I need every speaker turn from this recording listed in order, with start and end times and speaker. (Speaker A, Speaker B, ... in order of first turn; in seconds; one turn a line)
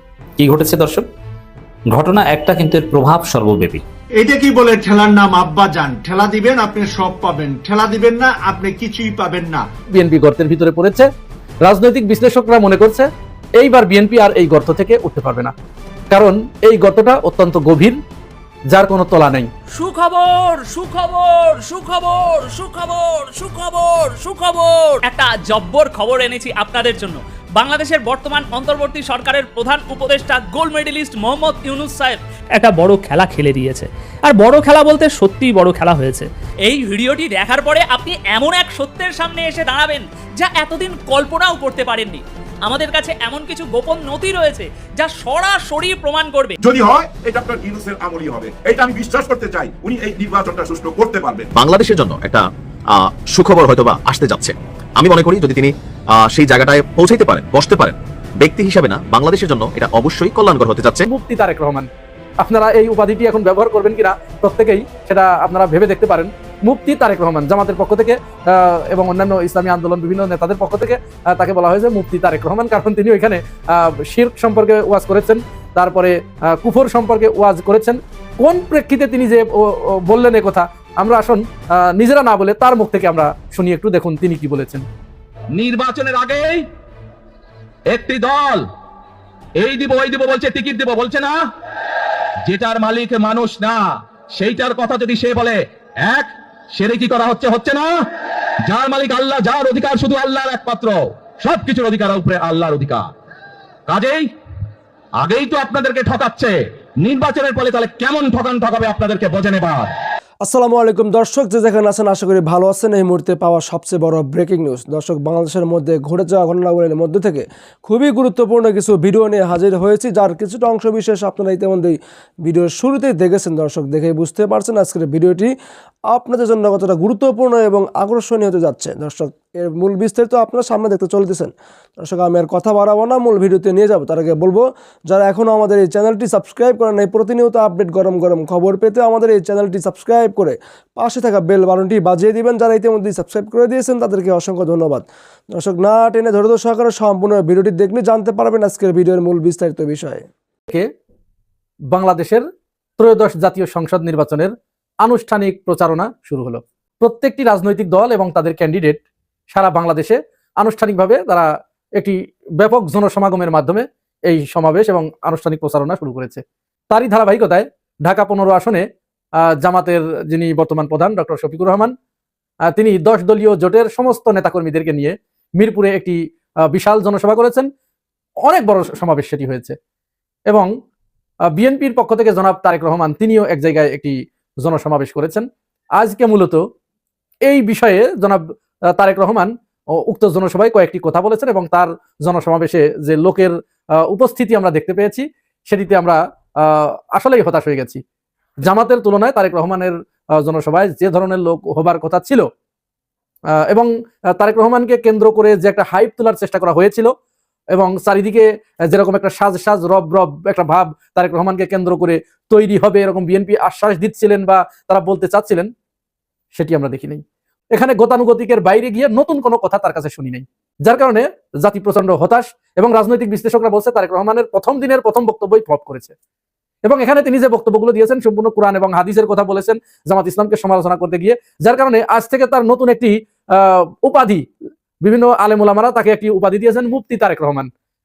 Speaker A: 0.4-1.1
Speaker A: 1.9-3.8
Speaker B: 4.2-9.7
Speaker C: 9.9-11.1
Speaker C: 11.6-13.1
Speaker C: 13.6-15.5
Speaker C: 16.1-18.0
Speaker C: 18.7-19.5
Speaker D: 19.7-46.5
Speaker E: 46.6-51.5
Speaker F: 51.5-61.0
Speaker C: 61.1-61.9
Speaker C: 62.4-84.8
Speaker G: 85.5-86.7
Speaker G: 87.9-88.7
Speaker G: 89.6-91.4
Speaker G: 92.5-98.1
Speaker G: 98.7-103.1
Speaker G: 103.9-104.3
Speaker G: 105.2-109.9
Speaker H: 110.4-125.5
Speaker H: 126.1-150.2
Speaker C: 151.9-152.4
Speaker C: 153.0-168.8
Speaker C: 169.6-171.9
Speaker C: 172.7-176.2
Speaker C: 176.7-177.7
Speaker C: 178.4-179.7
Speaker C: 181.5-185.5
Speaker C: 186.0-186.6
Speaker C: 187.4-188.4
Speaker C: 188.9-198.0
Speaker C: 198.6-202.5
Speaker C: 203.6-207.1
Speaker C: 207.7-215.7
Speaker C: 216.5-226.1
Speaker C: 226.8-234.4
Speaker C: 235.0-237.7